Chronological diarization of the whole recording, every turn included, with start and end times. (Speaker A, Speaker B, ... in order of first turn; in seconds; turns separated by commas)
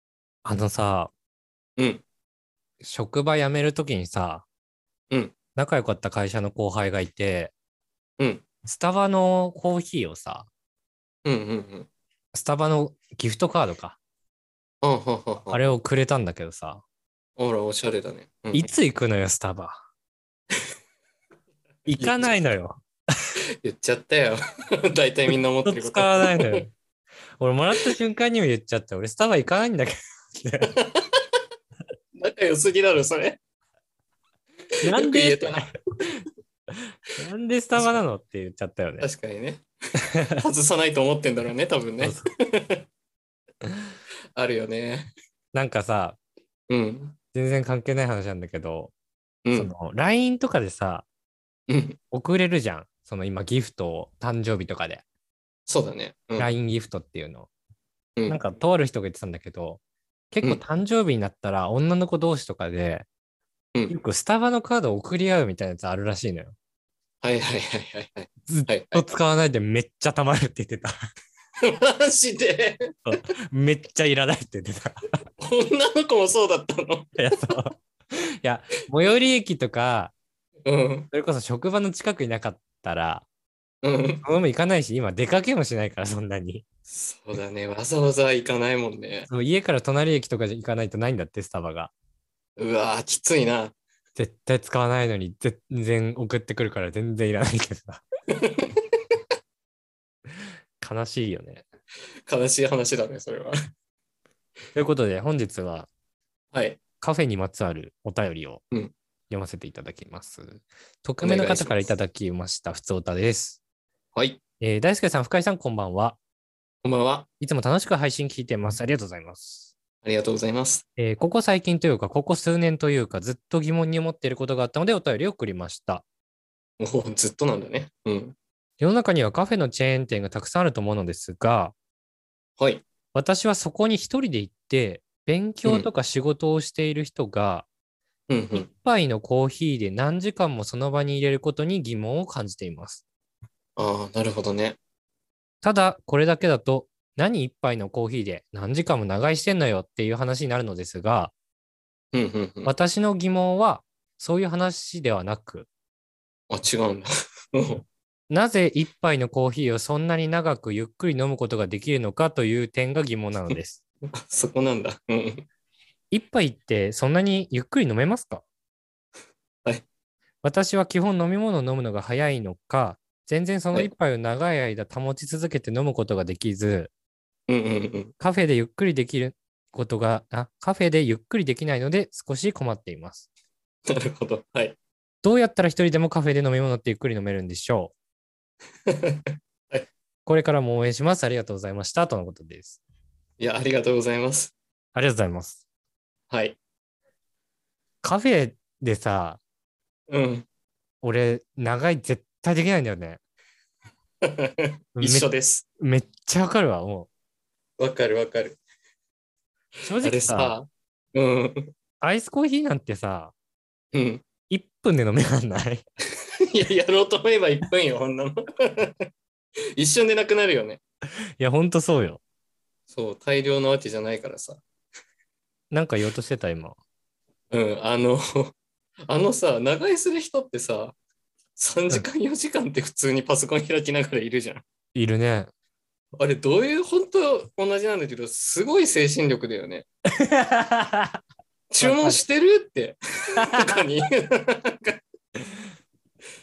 Speaker A: 0.5-1.1, Speaker B: 1.8-2.0, Speaker A: 2.8-4.5, Speaker A: 5.6-7.5, Speaker A: 8.7-10.5, Speaker B: 11.2-11.9, Speaker A: 12.3-14.0, Speaker B: 14.8-15.6, Speaker A: 15.5-16.8, Speaker B: 17.4-18.7, Speaker A: 18.5-19.8, Speaker A: 21.9-22.8, Speaker B: 21.9-22.4, Speaker B: 23.6-26.7, Speaker A: 25.3-26.7, Speaker A: 27.4-30.7, Speaker B: 30.7-31.0, Speaker B: 32.2-33.4, Speaker A: 34.8-35.7, Speaker B: 35.0-35.7, Speaker A: 37.2-39.1, Speaker B: 39.0-39.6, Speaker B: 40.4-42.8, Speaker B: 44.4-45.1, Speaker A: 45.5-46.2, Speaker B: 46.7-47.2, Speaker A: 47.3-48.9, Speaker A: 49.5-51.1, Speaker B: 51.7-52.0, Speaker A: 52.1-55.0, Speaker B: 55.7-56.5, Speaker A: 56.4-57.5, Speaker A: 58.3-59.8, Speaker A: 60.3-63.1, Speaker A: 63.9-66.5, Speaker B: 67.2-69.0, Speaker A: 68.5-71.0, Speaker B: 71.6-72.9, Speaker A: 73.1-75.0, Speaker B: 75.4-77.1, Speaker A: 77.2-77.7, Speaker A: 78.4-80.1, Speaker B: 80.7-81.1, Speaker A: 81.1-83.3, Speaker B: 83.8-84.2, Speaker A: 84.2-86.6, Speaker B: 86.9-89.3, Speaker A: 89.3-91.9, Speaker B: 92.6-93.7, Speaker A: 94.2-98.0, Speaker B: 98.4-98.8, Speaker A: 100.8-101.7, Speaker B: 102.3-103.5, Speaker A: 104.8-105.9, Speaker B: 106.5-106.8, Speaker A: 107.0-108.6, Speaker A: 109.3-113.6, Speaker B: 111.2-111.9, Speaker B: 114.1-114.4, Speaker A: 114.6-116.2, Speaker B: 116.8-117.3, Speaker A: 117.4-119.7, Speaker B: 120.0-120.8, Speaker A: 121.0-126.0, Speaker B: 126.8-128.3, Speaker A: 128.8-131.8, Speaker B: 132.6-132.8, Speaker A: 133.1-137.7, Speaker B: 138.3-138.7, Speaker A: 138.6-143.0, Speaker B: 143.8-144.8, Speaker A: 145.6-151.3, Speaker B: 152.1-152.7, Speaker A: 152.7-155.7, Speaker B: 156.5-157.9, Speaker A: 158.3-163.8, Speaker B: 164.2-165.5, Speaker A: 166.1-168.4, Speaker A: 170.4-176.9, Speaker B: 177.5-178.1, Speaker A: 178.2-183.3, Speaker B: 183.9-184.8, Speaker A: 185.2-187.9, Speaker B: 188.9-189.8, Speaker A: 190.3-192.8, Speaker B: 193.4-194.5, Speaker A: 194.9-195.6, Speaker B: 196.3-196.6, Speaker A: 198.0-199.4, Speaker B: 200.1-200.5, Speaker A: 201.0-203.2, Speaker B: 204.2-205.7, Speaker A: 205.0-207.1, Speaker B: 207.8-208.6, Speaker A: 209.8-210.5, Speaker B: 210.0-211.7, Speaker A: 212.0-213.3, Speaker B: 213.9-214.2, Speaker A: 214.5-215.8, Speaker B: 216.5-218.9, Speaker B: 219.8-220.8, Speaker A: 221.4-222.2, Speaker B: 222.9-224.6, Speaker A: 225.7-226.8, Speaker B: 227.5-228.5, Speaker B: 229.1-230.9, Speaker B: 231.6-234.6, Speaker A: 234.9-235.5, Speaker B: 236.2-239.9, Speaker A: 240.2-241.2, Speaker B: 241.7-245.0, Speaker A: 241.8-242.2